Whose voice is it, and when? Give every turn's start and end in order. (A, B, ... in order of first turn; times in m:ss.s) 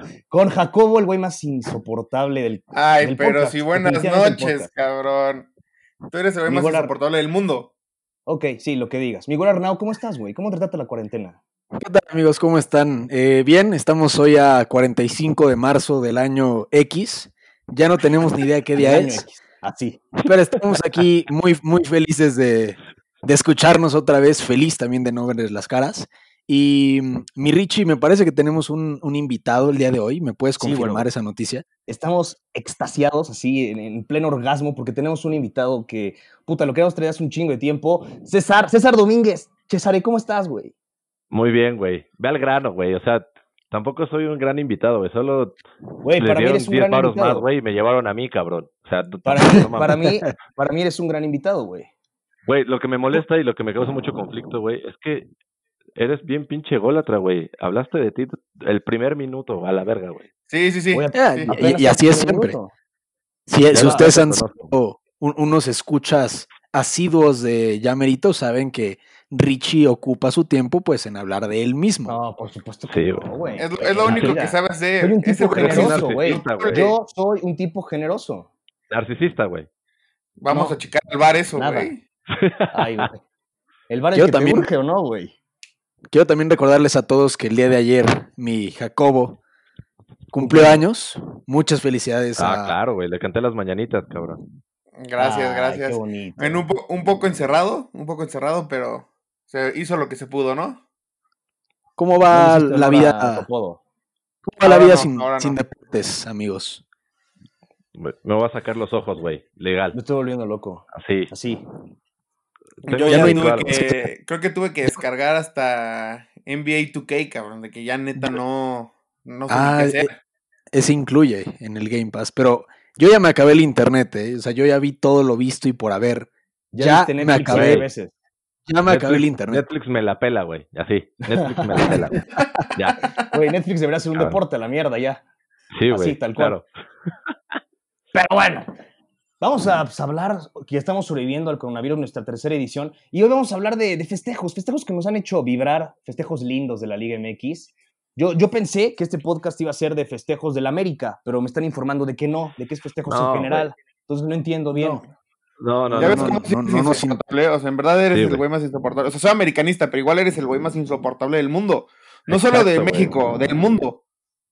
0:00.3-0:04.7 A
0:02.7-0:05.5 B
0:06.1-0:07.7 B
0:06.5-0:06.9 A
0:08.3-0:11.4 A
0:11.7-0:19.2 C
0:18.8-0:20.1 A
0:20.2-0:31.6 C
0:30.6-0:31.1 A
0:31.9-0:40.7 A
0:41.3-0:45.6 D
0:46.0-0:47.4 A
0:46.2-0:50.1 D
0:49.2-0:51.9 A
0:52.4-0:55.3 D
0:56.0-1:00.3 D
1:00.5-1:01.5 B
1:00.9-1:02.7 A
1:01.1-1:02.6 C
1:03.5-1:12.2 C
1:03.7-1:04.7 D
1:03.7-1:04.1 A
1:12.1-1:18.5 A
1:12.9-1:13.4 D
1:13.6-1:16.9 B
1:14.0-1:14.4 D
1:15.6-1:16.9 D
1:18.9-1:19.7 D
1:20.4-1:22.0 B
1:20.5-1:20.8 A
1:21.6-1:21.9 A
1:22.3-1:23.0 D
1:22.7-1:23.2 A
1:23.9-1:25.3 A
1:24.1-1:24.7 C
1:26.1-1:29.4 C
1:30.3-1:32.8 C
1:30.4-1:30.8 A
1:32.4-1:34.4 D
1:35.0-1:40.8 B
1:35.2-1:36.7 A
1:42.0-1:43.5 C
1:42.3-1:43.8 A
1:44.4-1:46.8 C
1:44.6-1:45.6 B
1:47.9-1:50.0 D
1:49.9-1:51.6 A
1:50.9-1:51.3 D
1:52.8-1:54.1 D
1:52.8-2:00.2 B
1:53.0-1:53.7 C
1:59.5-2:00.1 C
2:00.7-2:07.8 C
2:06.7-2:08.1 A
2:07.5-2:07.9 D
2:08.7-2:09.6 C
2:08.8-2:13.1 D
2:11.3-2:12.0 A
2:13.3-2:15.2 A
2:15.7-2:16.6 D
2:15.9-2:16.6 A
2:18.1-2:18.7 A
2:19.4-2:35.0 A
2:33.1-2:33.7 D
2:34.7-2:35.0 C
2:35.6-2:36.4 D
2:35.9-2:37.2 C
2:36.0-2:44.0 B
2:38.1-2:38.4 D
2:42.3-2:43.2 D